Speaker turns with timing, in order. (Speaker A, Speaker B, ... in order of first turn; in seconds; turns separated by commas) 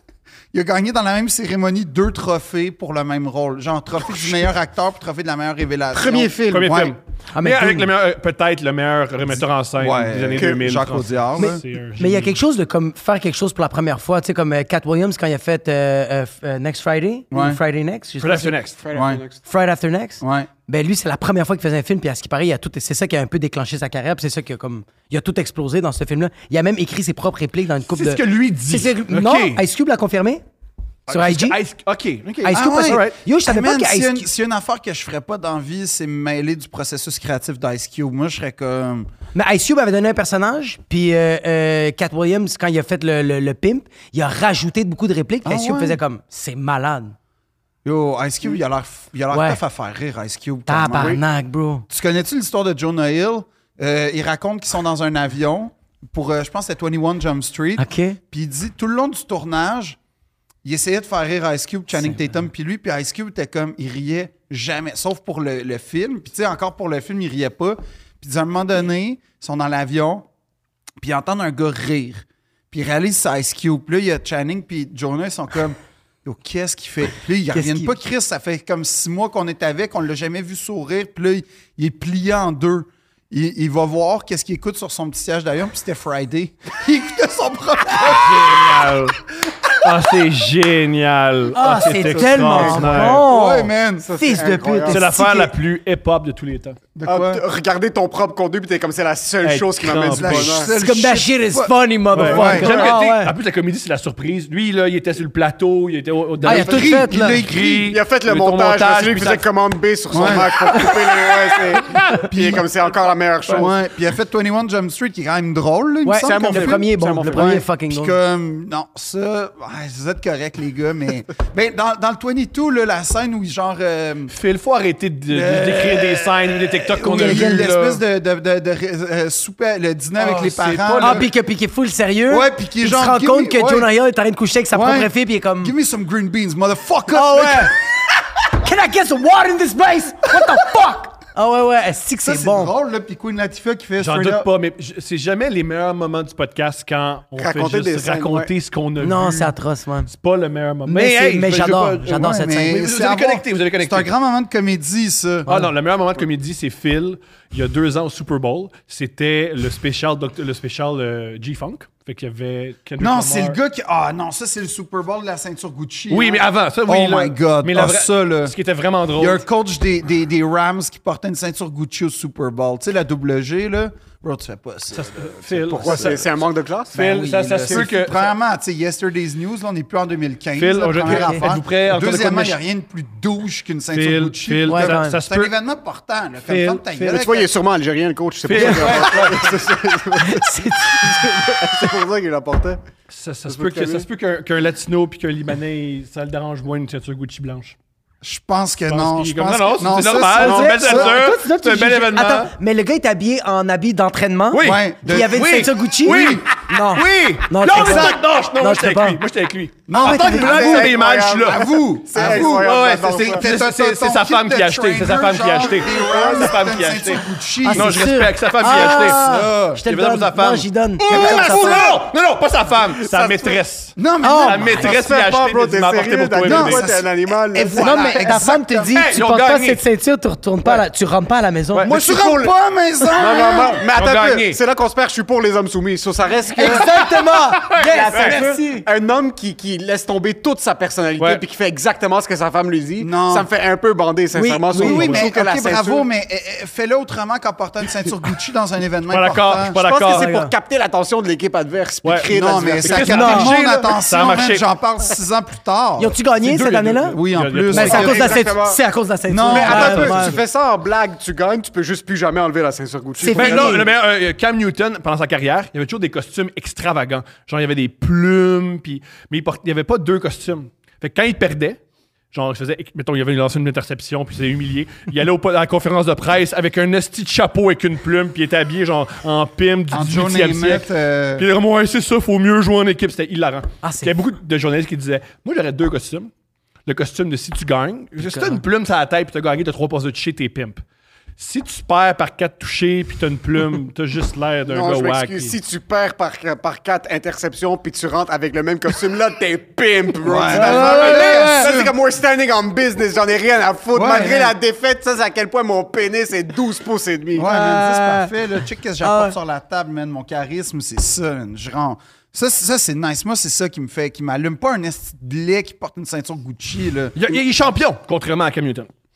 Speaker A: 0.5-6.9, Speaker B: 5.9-6.8, Speaker C: 6.5-12.3, Speaker D: 7.3-7.9, Speaker A: 9.3-11.6, Speaker D: 11.3-18.6, Speaker A: 17.3-17.6, Speaker C: 18.2-18.8, Speaker B: 18.8-19.4, Speaker A: 18.9-19.2, Speaker D: 19.4-30.4, Speaker A: 20.2-20.5, Speaker C: 27.9-29.6, Speaker C: 31.1-33.2, Speaker D: 31.1-31.6, Speaker A: 32.4-39.1, Speaker D: 32.4-34.3, Speaker D: 39.3-47.1, Speaker A: 45.4-46.0, Speaker A: 47.8-51.2, Speaker D: 49.3-49.6, Speaker D: 50.7-51.8, Speaker B: 50.9-51.2, Speaker A: 51.9-60.0, Speaker D: 57.8-58.2, Speaker A: 60.6-70.2, Speaker A: 71.0-88.7, Speaker D: 77.5-77.9, Speaker C: 88.0-89.2, Speaker C: 89.8-93.3, Speaker D: 91.5-95.5, Speaker B: 92.0-93.1, Speaker A: 93.0-94.1, Speaker B: 94.0-95.0, Speaker C: 94.9-96.8, Speaker A: 96.9-97.4, Speaker B: 97.0-100.7, Speaker C: 99.4-100.6, Speaker A: 100.1-102.9, Speaker D: 100.7-103.3, Speaker C: 102.1-109.5, Speaker A: 106.4-107.9, Speaker D: 106.4-107.4, Speaker B: 107.9-113.7, Speaker A: 110.1-110.5, Speaker C: 110.2-110.9, Speaker C: 111.9-112.2, Speaker A: 112.3-112.6, Speaker A: 113.5-124.3, Speaker D: 116.0-118.1, Speaker B: 116.2-117.5, Speaker C: 124.3-128.0, Speaker A: 125.3-131.3, Speaker D: 127.2-127.7, Speaker C: 130.2-131.3, Speaker D: 131.0-135.7, Speaker A: 132.3-133.9, Speaker A: 134.7-137.7, Speaker D: 137.1-137.8, Speaker D: 138.5-142.7, Speaker A: 142.2-144.5, Speaker C: 144.0-149.5, Speaker B: 147.4-148.5, Speaker D: 149.0-150.1, Speaker C: 150.1-152.2, Speaker D: 150.9-152.8, Speaker A: 152.1-155.5, Speaker C: 152.7-154.1, Speaker D: 155.4-155.7, Speaker C: 155.5-163.6, Speaker A: 163.0-168.5, Speaker C: 166.1-169.4, Speaker A: 169.2-176.2, Speaker C: 174.9-176.3, Speaker B: 175.7-177.0, Speaker C: 176.9-178.3, Speaker A: 176.9-187.5, Speaker C: 180.6-182.6, Speaker D: 181.1-181.4, Speaker C: 183.9-185.5, Speaker D: 184.7-185.2, Speaker C: 186.4-187.3, Speaker B: 187.1-192.8, Speaker C: 188.4-189.6, Speaker D: 188.5-189.2, Speaker D: 190.2-191.1, Speaker C: 193.1-197.8, Speaker B: 193.5-194.1, Speaker A: 198.2-201.1, Speaker C: 198.9-202.5, Speaker D: 200.4-209.2, Speaker B: 200.4-201.1, Speaker C: 204.5-226.8, Speaker A: 204.6-205.6, Speaker A: 207.6-208.2, Speaker A: 209.9-210.9, Speaker D: 209.9-210.9, Speaker B: 210.1-213.4, Speaker A: 211.4-218.0, Speaker B: 215.7-216.5, Speaker D: 217.6-221.9, Speaker A: 218.8-219.8, Speaker A: 221.1-221.8, Speaker B: 221.1-222.0, Speaker B: 223.0-223.6, Speaker A: 224.0-224.8, Speaker D: 224.2-224.8, Speaker B: 224.8-228.3, Speaker A: 226.4-229.0, Speaker D: 227.6-231.9, Speaker C: 228.9-229.8, Speaker B: 231.8-232.5, Speaker A: 231.9-233.8, Speaker B: 233.2-237.1, Speaker C: 233.9-234.6, Speaker D: 236.5-238.8, Speaker C: 237.6-238.4, Speaker B: 237.7-246.1, Speaker A: 243.0-243.5, Speaker D: 244.3-245.2, Speaker A: 244.7-249.8, Speaker C: 249.1-250.2, Speaker B: 249.8-253.5, Speaker D: 250.1-250.5, Speaker C: 252.0-252.3, Speaker A: 252.3-256.1, Speaker C: 252.8-254.6, Speaker D: 253.1-253.5, Speaker D: 256.0-257.2, Speaker C: 256.4-258.2, Speaker A: 257.0-258.4, Speaker B: 257.7-258.8, Speaker D: 257.7-260.4, Speaker A: 259.3-260.2, Speaker B: 259.4-263.9, Speaker C: 259.7-260.4, Speaker D: 263.2-263.9, Speaker C: 263.3-271.8, Speaker C: 272.3-286.3, Speaker A: 279.9-281.5, Speaker D: 283.8-284.1, Speaker C: 286.9-290.8, Speaker D: 288.3-288.6, Speaker C: 291.4-295.5, Speaker B: 294.7-307.5, Speaker A: 300.2-301.9, Speaker D: 300.2-301.7, Speaker A: 303.9-304.6, Speaker A: 307.3-317.2, Speaker D: 307.4-308.3, Speaker D: 309.0-309.4, Speaker C: 317.1-318.9